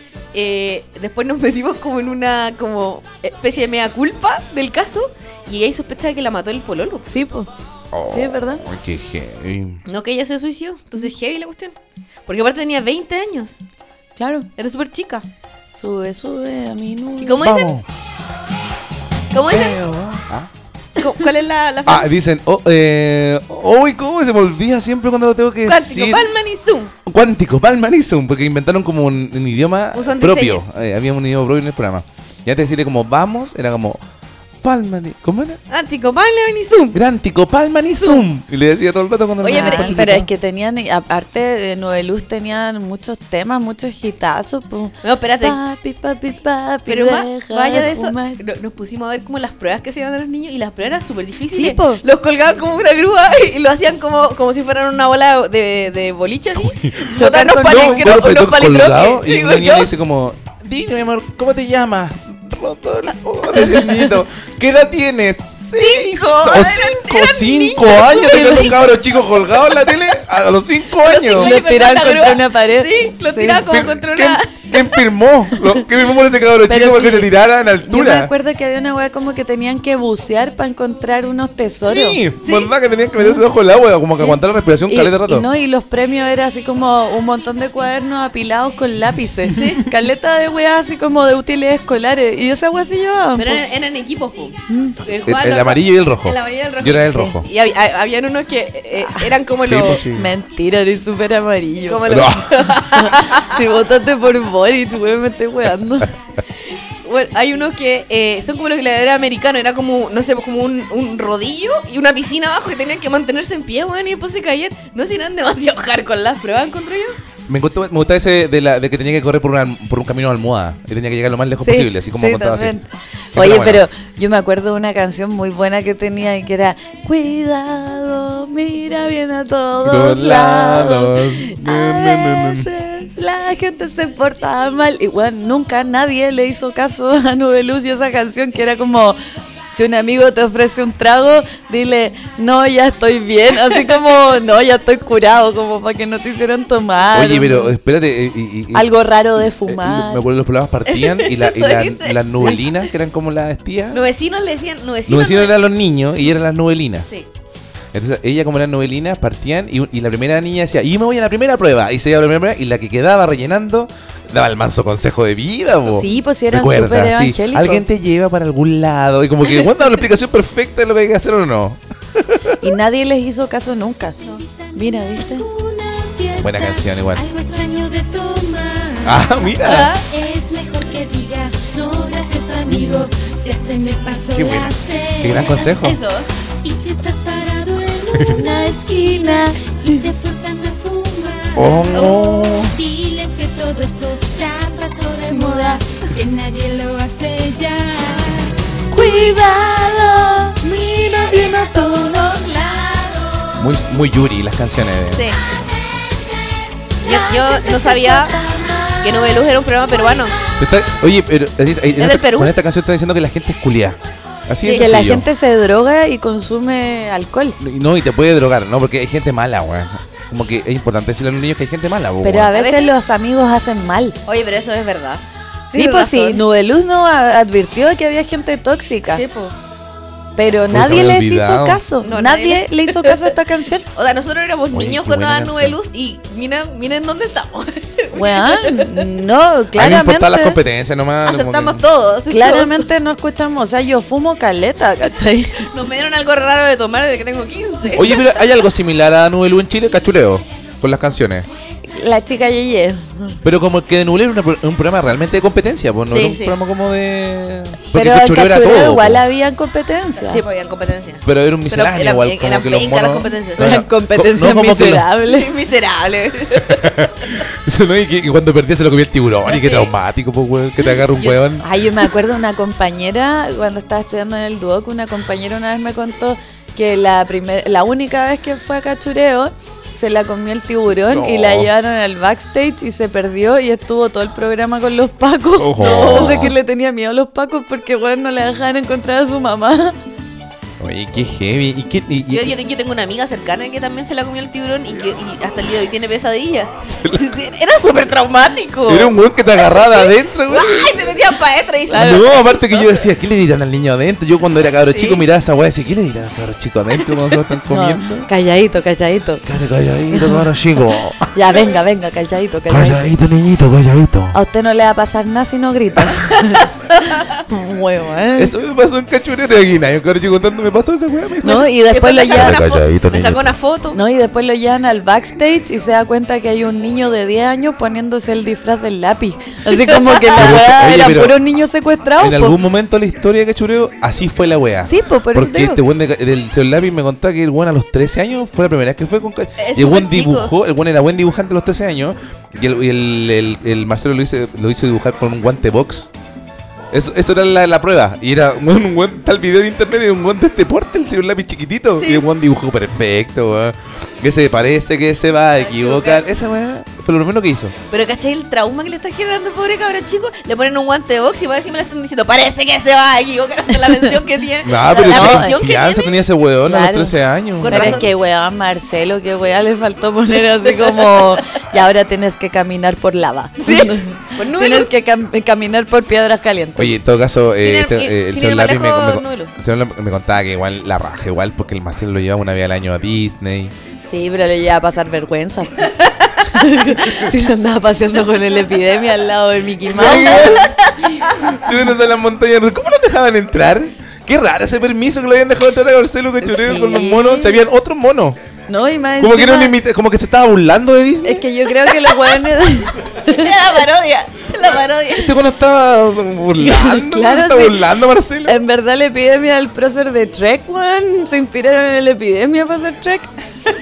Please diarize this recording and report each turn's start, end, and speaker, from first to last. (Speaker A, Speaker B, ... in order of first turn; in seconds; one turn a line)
Speaker A: 0.3-7.1
Speaker B: 7.1-7.5
Speaker C: 7.9-9.8
Speaker B: 8.1-8.6
Speaker A: 9.8-11.7
Speaker A: 12.3-13.5
Speaker B: 14.2-14.5
Speaker A: 14.6-15.2
Speaker B: 15.8-17.5
Speaker A: 17.2-17.7
Speaker C: 17.4-17.9
Speaker A: 19.3-19.8
Speaker C: 19.5-20.5
Speaker A: 21.0-22.1
Speaker C: 21.9-26.3
Speaker A: 25.6-26.9
Speaker C: 27.0-34.0
Speaker A: 29.9-30.6
Speaker C: 34.6-35.6
Speaker A: 35.7-37.0
Speaker C: 36.9-40.3
Speaker A: 39.4-40.1
Speaker B: 39.5-48.4
Speaker A: 45.0-45.6
Speaker A: 46.9-59.9
Speaker B: 51.5-52.0
Speaker C: 56.6-57.1
Speaker B: 57.1-58.1
Speaker C: 57.6-71.5
Speaker A: 65.8-68.9
Speaker B: 68.3-68.7
Speaker A: 71.0-75.0
Speaker B: 71.3-73.6
Speaker C: 73.6-78.3
Speaker B: 76.7-77.3
Speaker B: 77.8-82.2
Speaker C: 81.9-85.5
Speaker A: 82.4-82.7
Speaker B: 84.2-93.6
Speaker A: 89.5-89.8
Speaker A: 93.4-100.0
Speaker B: 94.7-95.0
Speaker C: 95.2-97.5
Speaker B: 99.0-99.3
Speaker C: 99.6-100.3
Speaker B: 100.0-102.2
Speaker A: 101.9-103.6
Speaker C: 102.1-102.7
Speaker B: 102.9-106.1
Speaker A: 106.7-117.1
Speaker C: 117.5-122.8
Speaker B: 121.6-139.2
Speaker C: 123.3-123.8
Speaker C: 129.8-132.7
Speaker B: 139.7-147.7
Speaker C: 147.1-154.0
Speaker B: 148.7-150.2
Speaker A: 150.9-152.8
Speaker A: 153.9-155.6
Speaker C: 155.1-157.2
Speaker C: 157.9-172.7
Speaker B: 165.9-167.8
Speaker B: 172.6-174.2
Speaker B: 174.7-175.5
Speaker D: 175.4-179.1
Speaker C: 176.4-177.2
Speaker C: 179.0-179.9
Speaker A: 179.6-180.1
Speaker D: 180.1-185.3
Speaker C: 182.7-183.0
Speaker C: 184.3-186.0
Speaker A: 185.8-186.3
Speaker D: 186.6-188.7
Speaker C: 188.1-188.4
Speaker B: 188.2-190.1
Speaker D: 189.9-191.8
Speaker C: 191.5-192.8
Speaker A: 191.9-192.3
Speaker D: 192.7-198.5
Speaker B: 195.2-195.9
Speaker B: 198.9-200.6
Speaker C: 201.2-201.8
Speaker D: 203.0-203.4
Speaker C: 203.5-205.3
Speaker A: 205.1-205.4
Speaker A: 207.0-208.4
Speaker B: 207.7-209.0
Speaker A: 209.0-210.4
Speaker C: 210.6-215.3
Speaker A: 212.0-212.5
Speaker A: 214.6-214.9
Speaker B: 214.7-217.6
Speaker C: 217.6-222.5
Speaker B: 222.2-224.2
Speaker A: 222.5-222.9
Speaker A: 224.3-226.4
Speaker B: 225.7-229.2
Speaker A: 229.1-229.5
Speaker B: 230.4-233.9
Speaker C: 230.7-231.8
Speaker A: 232.0-233.3
Speaker A: 233.9-239.1
Speaker C: 234.7-235.8
Speaker B: 238.1-240.6
Speaker C: 239.7-241.8
Speaker A: 241.2-242.9
Speaker B: 242.3-245.7
Speaker A: 245.6-248.4
Speaker C: 247.9-251.5
Speaker B: 251.9-253.4
Speaker C: 253.4-259.2
Speaker A: 256.1-256.6
Speaker B: 257.9-260.4
Speaker A: 260.2-263.8
Speaker C: 261.2-265.1
Speaker B: 263.6-265.5
Speaker A: 265.2-267.1
Speaker C: 266.5-272.1
Speaker A: 269.4-269.9
Speaker A: 271.0-271.4
Speaker B: 271.6-289.9
Speaker C: 281.0-281.7
Speaker C: 285.6-286.5
Speaker A: 285.8-286.5
Speaker C: 290.8-292.5
Speaker A: 292.3-303.1
Speaker C: 296.8-297.3
Speaker C: 298.9-301.0
Speaker B: 301.9-302.2
Speaker C: 301.9-308.3
Speaker A: 304.9-305.2
Speaker A: 307.1-307.4
Speaker B: 307.7-309.4
Speaker C: 309.4-311.7
Speaker B: 310.1-310.5
Speaker B: 311.3-313.1
Speaker C: 312.7-314.4
Speaker B: 314.3-316.7
Speaker A: 316.4-317.3
Speaker B: 317.3-318.5
Speaker C: 318.4-321.7
Speaker B: 321.4-322.6
Speaker A: 321.6-324.0
Speaker C: 322.3-323.5
Speaker B: 323.9-332.6
Speaker A: 329.7-330.3
Speaker C: 330.3-331.4
Speaker C: 332.2-346.1
Speaker B: 334.8-335.8
Speaker A: 339.6-340.5
Speaker C: 346.9-357.7
Speaker A: 352.0-352.2
Speaker A: 355.6-356.2
Speaker A: 357.9-366.2
Speaker C: 364.6-368.0
Speaker B: 365.1-365.6
Speaker B: 366.6-377.0
Speaker A: 367.6-368.1
Speaker A: 370.8-371.4
Speaker A: 373.6-374.9
Speaker C: 376.8-383.7
Speaker A: 377.6-379.5
Speaker B: 384.1-390.8
Speaker A: 385.9-386.4
Speaker C: 389.9-390.8
Speaker A: 390.0-391.6
Speaker C: 391.3-398.4
Speaker B: 396.4-397.6
Speaker B: 398.7-399.8
Speaker C: 399.2-401.5
Speaker B: 401.2-403.5
Speaker A: 401.9-402.4
Speaker A: 403.2-405.4
Speaker C: 405.1-408.6
Speaker B: 406.6-407.9
Speaker B: 408.4-413.3